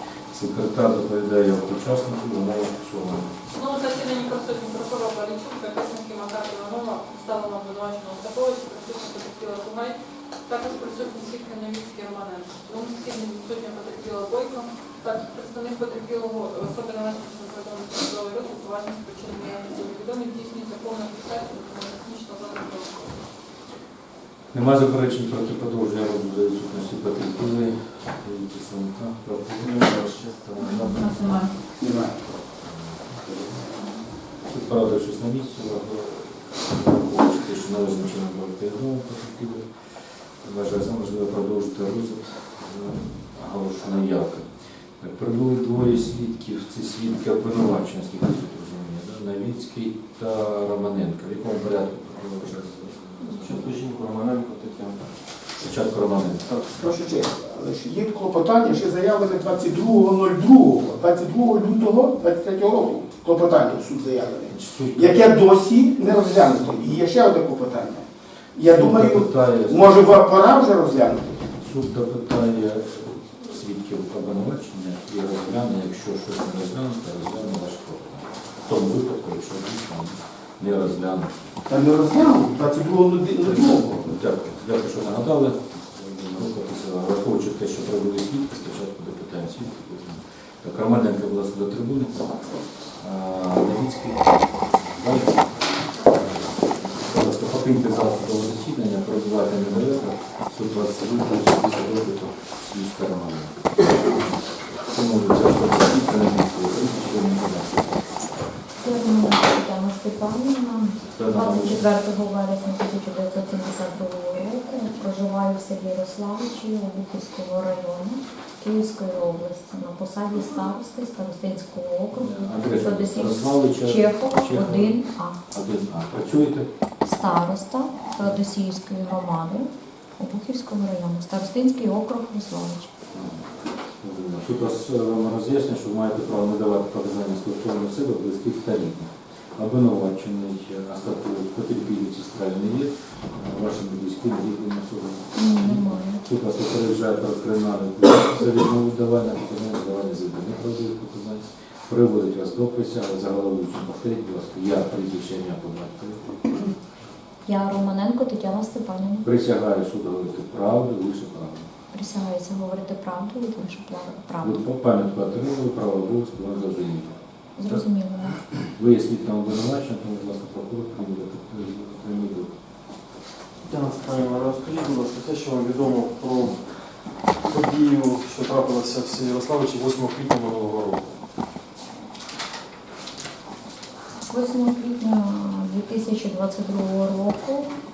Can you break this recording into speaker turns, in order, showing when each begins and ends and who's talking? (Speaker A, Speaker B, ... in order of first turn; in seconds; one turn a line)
Speaker A: 0.3-3.3
Speaker B: 3.5-9.9
Speaker B: 10.5-23.2
Speaker A: 24.5-30.0
Speaker C: 29.6-31.2
Speaker D: 31.8-32.2
Speaker A: 32.6-33.6
Speaker A: 34.5-39.7
Speaker A: 40.4-44.5
Speaker A: 45.0-53.7
Speaker C: 53.2-55.0
Speaker A: 55.6-56.5
Speaker D: 56.7-71.3
Speaker A: 64.5-65.3
Speaker A: 68.7-69.9
Speaker A: 71.6-81.5
Speaker D: 81.7-84.0
Speaker A: 83.5-92.2
Speaker A: 93.0-94.4
Speaker A: 94.9-95.5
Speaker A: 97.0-103.7
Speaker A: 104.9-107.8
Speaker E: 108.8-125.4
Speaker A: 111.1-111.8
Speaker A: 122.1-126.7
Speaker E: 127.0-132.9
Speaker A: 133.1-133.5
Speaker A: 134.0-156.3
Speaker E: 145.3-146.2
Speaker E: 157.5-159.2
Speaker A: 159.2-161.7
Speaker E: 161.9-164.6
Speaker A: 164.4-167.2
Speaker E: 167.6-168.4
Speaker A: 168.8-172.5
Speaker C: 173.7-176.6
Speaker C: 177.5-181.2
Speaker E: 184.3-187.7